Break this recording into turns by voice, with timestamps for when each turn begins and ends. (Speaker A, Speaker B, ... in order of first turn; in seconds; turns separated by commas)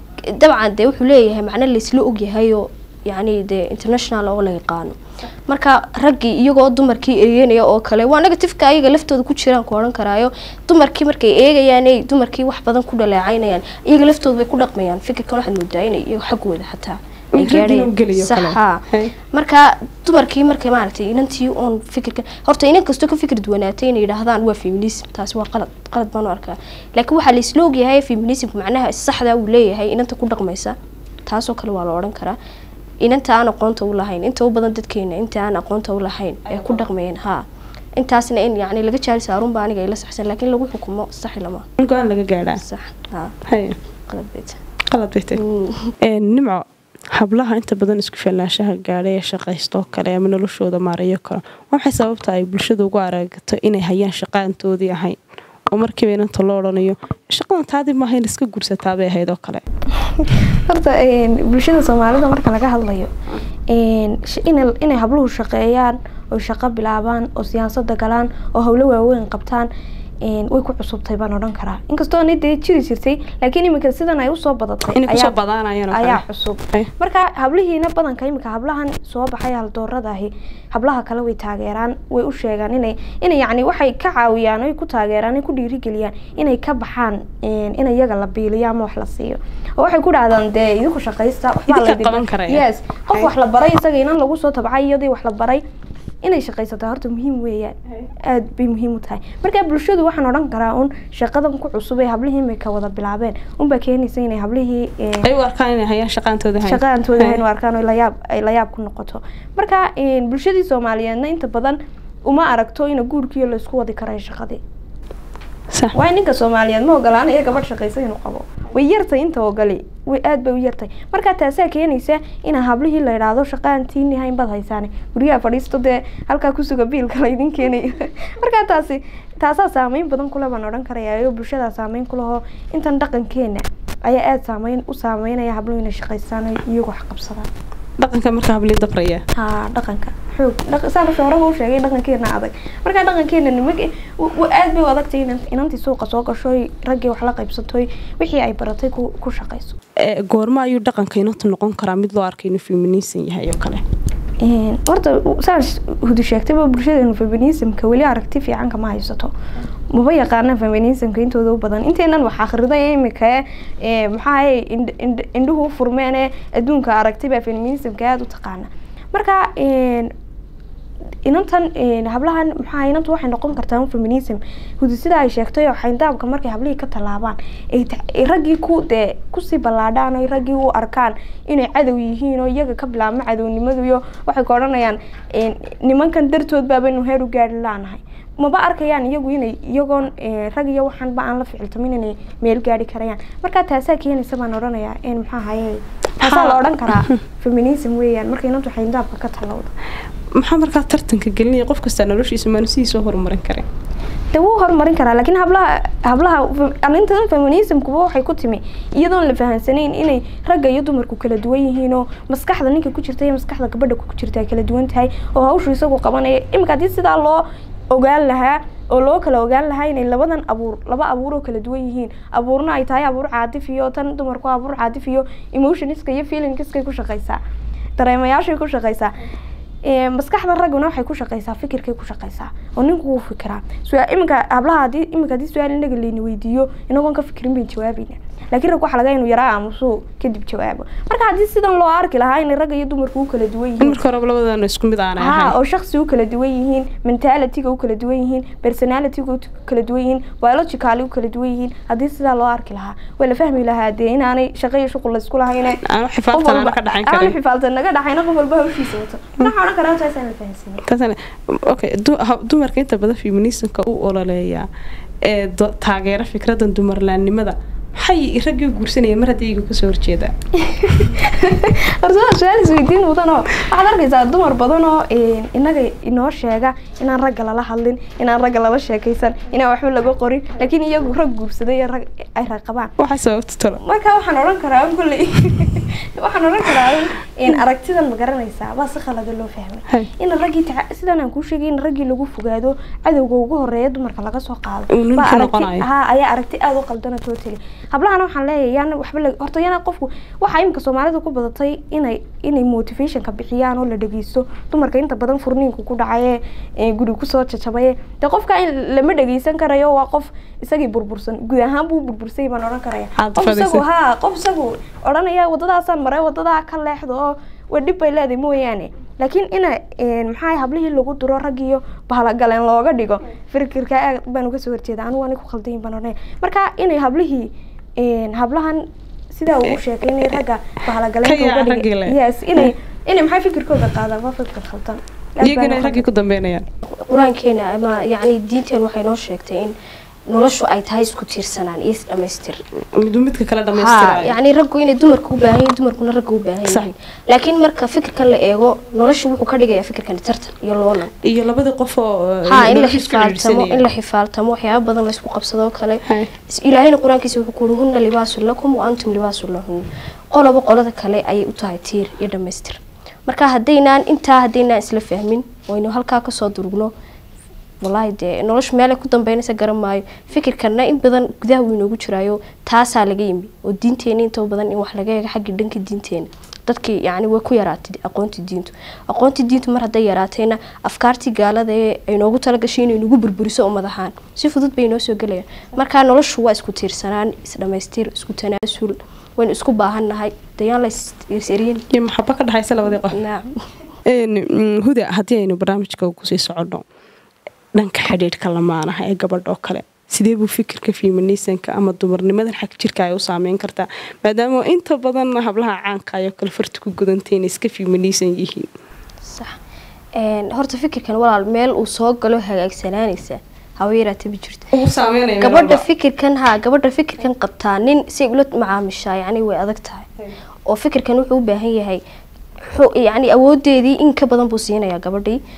Speaker A: 0.2-30.8, Speaker B: 17.4-19.1, Speaker A: 31.3-32.4, Speaker A: 33.0-37.4, Speaker B: 36.5-36.9, Speaker A: 38.0-41.7, Speaker B: 41.8-42.6, Speaker A: 42.6-43.4, Speaker B: 43.5-43.8, Speaker A: 44.1-44.6, Speaker B: 44.9-45.4, Speaker A: 45.4-46.0, Speaker B: 46.0-59.6, Speaker C: 60.0-63.1, Speaker C: 63.7-69.7, Speaker C: 70.2-75.3, Speaker B: 75.0-76.9, Speaker C: 75.9-95.6, Speaker B: 91.7-93.3, Speaker C: 96.2-105.3, Speaker B: 105.2-107.4, Speaker C: 106.6-114.6, Speaker C: 115.9-137.5, Speaker B: 138.0-139.2, Speaker C: 139.3-149.8, Speaker B: 150.0-153.8, Speaker C: 154.4-159.3, Speaker C: 159.9-170.1, Speaker C: 171.2-199.7, Speaker B: 196.2-197.2, Speaker B: 200.4-203.7, Speaker C: 204.3-227.4, Speaker C: 228.0-229.1, Speaker C: 229.8-244.0, Speaker B: 243.8-245.6, Speaker C: 245.2-255.8, Speaker B: 255.8-257.4, Speaker C: 256.3-260.8, Speaker B: 260.9-264.7, Speaker B: 265.2-270.3, Speaker C: 270.6-282.9, Speaker B: 283.0-283.8, Speaker C: 283.8-336.1, Speaker B: 294.9-295.9, Speaker B: 313.2-313.8, Speaker B: 331.2-332.7, Speaker B: 335.4-336.6, Speaker A: 336.9-339.7, Speaker A: 340.3-342.6, Speaker B: 342.9-344.4, Speaker A: 343.7-351.1, Speaker B: 351.2-353.9, Speaker A: 352.5-366.9, Speaker A: 367.8-391.9, Speaker B: 391.9-393.2, Speaker A: 393.1-393.7, Speaker B: 394.1-396.8, Speaker B: 397.8-408.7, Speaker A: 409.2-409.6, Speaker A: 410.1-414.9, Speaker B: 414.7-415.8, Speaker A: 415.4-420.1, Speaker A: 420.7-422.0, Speaker A: 422.6-425.4